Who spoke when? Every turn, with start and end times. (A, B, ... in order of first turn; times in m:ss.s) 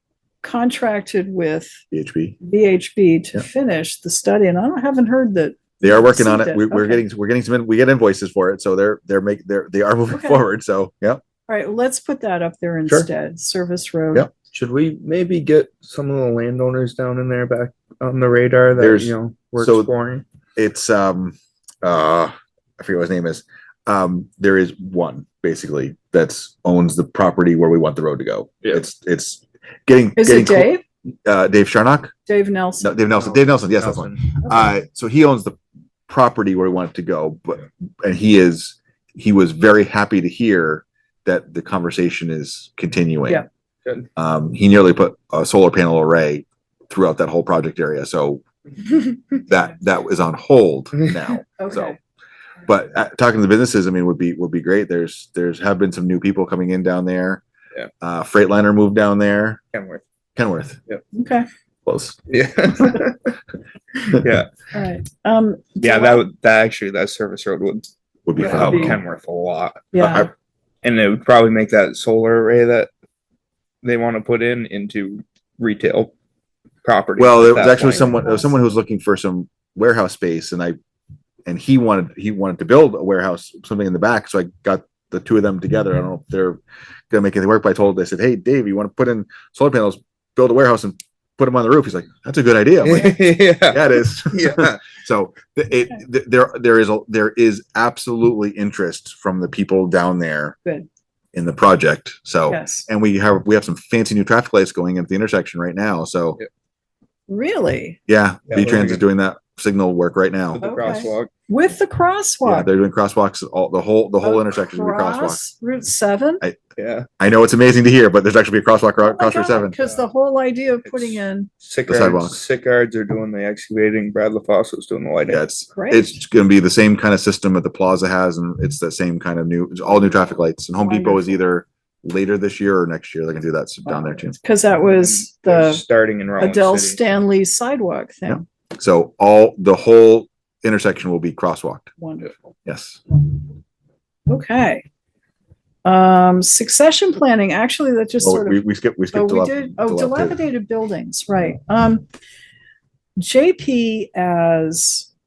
0:00.4-0:01.8 A
0:01.9-0:02.4 B
0:02.4-0:07.0 A
0:05.8-0:11.2 B
0:10.1-0:10.4 A
0:11.5-0:14.3 A
0:14.5-0:20.2 C
0:18.8-0:19.9 B
0:20.6-0:30.7 B
0:30.2-0:30.8 A
0:31.2-0:32.1 B
0:32.2-0:33.1 A
0:32.8-0:35.6 B
0:33.3-0:34.4 C
0:36.1-0:43.4 B
0:44.2-0:48.4 B
0:49.5-0:51.9 B
0:50.9-0:51.3 C
0:51.6-0:52.0 A
0:52.7-0:57.4 B
0:58.0-0:59.6 B
0:59.7-1:00.0 C
1:00.4-1:00.8 B
1:01.1-1:01.5 A
1:01.8-1:02.2 B
1:02.3-1:03.4 C
1:04.0-1:04.5 C
1:04.7-1:06.2 A
1:05.8-1:10.2 C
1:08.2-1:09.0 B
1:08.4-1:08.9 A
1:09.9-1:10.3 A
1:10.0-1:10.3 B
1:10.8-1:12.9 C
1:13.8-1:16.1 C
1:16.8-1:18.1 C
1:17.2-1:20.8 B
1:18.2-1:18.5 A
1:21.4-1:40.6 B
1:32.8-1:34.8 C
1:41.3-1:46.4 B
1:42.5-1:42.9 A
1:47.3-1:48.0 A
1:48.1-1:50.6 B
1:48.5-1:49.0 C
1:50.5-1:51.3 C
1:50.6-1:52.7 A
1:52.4-1:55.4 B
1:54.2-1:56.4 A
1:56.8-1:57.1 C
1:57.2-1:59.8 B
1:59.0-2:01.5 A
2:00.8-2:05.4 C
2:01.9-2:02.4 B
2:05.3-2:14.3 B
2:05.7-2:06.2 A
2:10.8-2:11.4 A
2:13.8-2:15.8 A
2:14.8-2:17.0 C
2:16.4-2:18.4 A
2:18.3-2:21.9 B
2:22.0-2:22.5 A
2:22.6-2:23.0 B
2:24.3-2:24.8 A
2:25.8-2:28.6 A
2:28.2-2:30.4 B
2:29.1-2:32.0 A
2:33.2-2:35.1 A